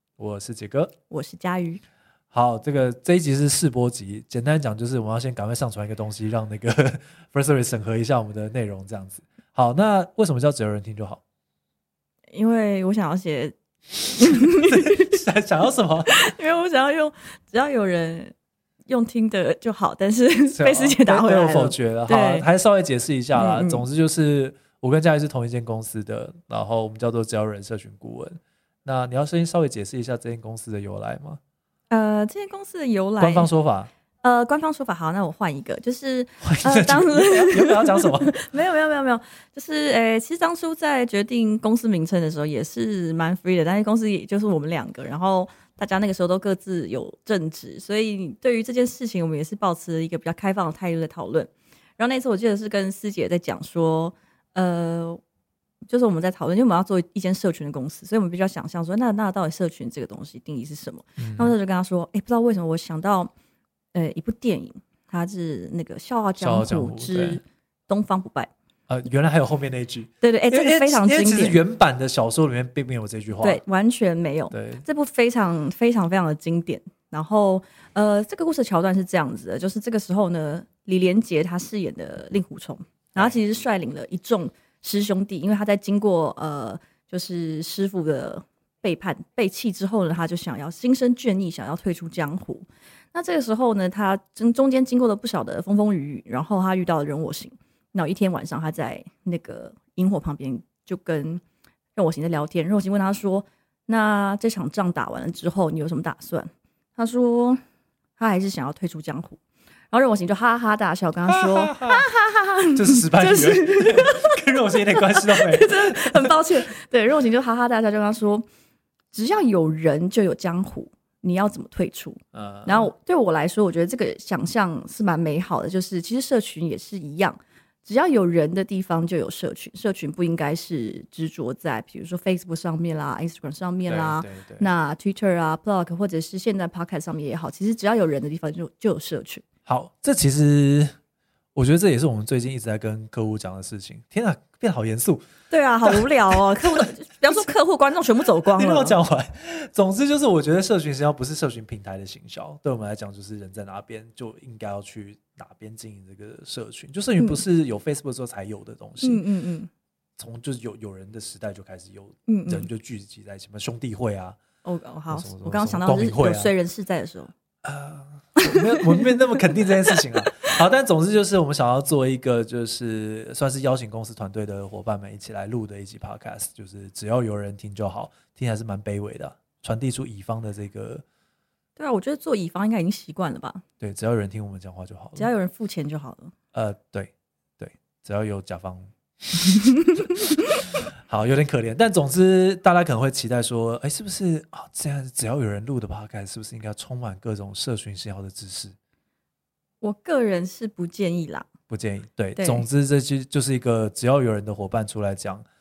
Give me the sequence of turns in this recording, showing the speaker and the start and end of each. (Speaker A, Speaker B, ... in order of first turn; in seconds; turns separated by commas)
Speaker A: 0.2-0.9, Speaker B: 1.1-1.8, Speaker A: 2.3-11.2, Speaker B: 12.3-15.2, Speaker A: 14.7-16.2, Speaker B: 16.1-18.3, Speaker B: 18.9-22.5, Speaker A: 20.5-31.4, Speaker B: 23.4-23.9, Speaker B: 31.9-33.5, Speaker A: 33.2-33.9, Speaker B: 34.2-55.2, Speaker A: 36.4-38.5, Speaker B: 55.9-63.3, Speaker A: 61.2-61.5, Speaker B: 63.9-68.5, Speaker A: 66.4-67.4, Speaker A: 68.9-73.6, Speaker B: 70.2-71.6, Speaker B: 73.4-101.4, Speaker A: 74.5-74.8, Speaker B: 102.0-107.6, Speaker B: 108.2-109.4, Speaker B: 109.9-118.5, Speaker A: 111.3-112.0, Speaker A: 112.7-116.4, Speaker B: 119.1-139.4, Speaker A: 122.3-122.9, Speaker A: 133.9-134.7, Speaker A: 139.7-140.9, Speaker A: 141.6-145.3, Speaker B: 145.5-149.0, Speaker A: 145.8-147.5, Speaker A: 148.5-159.2, Speaker B: 159.0-159.7, Speaker A: 160.2-164.4, Speaker B: 162.3-162.7, Speaker B: 164.6-167.3, Speaker A: 165.1-166.5, Speaker A: 167.6-181.0, Speaker B: 168.4-170.2, Speaker B: 181.8-183.6, Speaker A: 183.8-185.3, Speaker B: 185.2-186.3, Speaker A: 186.5-189.5, Speaker A: 191.1-198.8, Speaker B: 199.8-201.5, Speaker A: 201.7-205.4, Speaker B: 202.4-202.7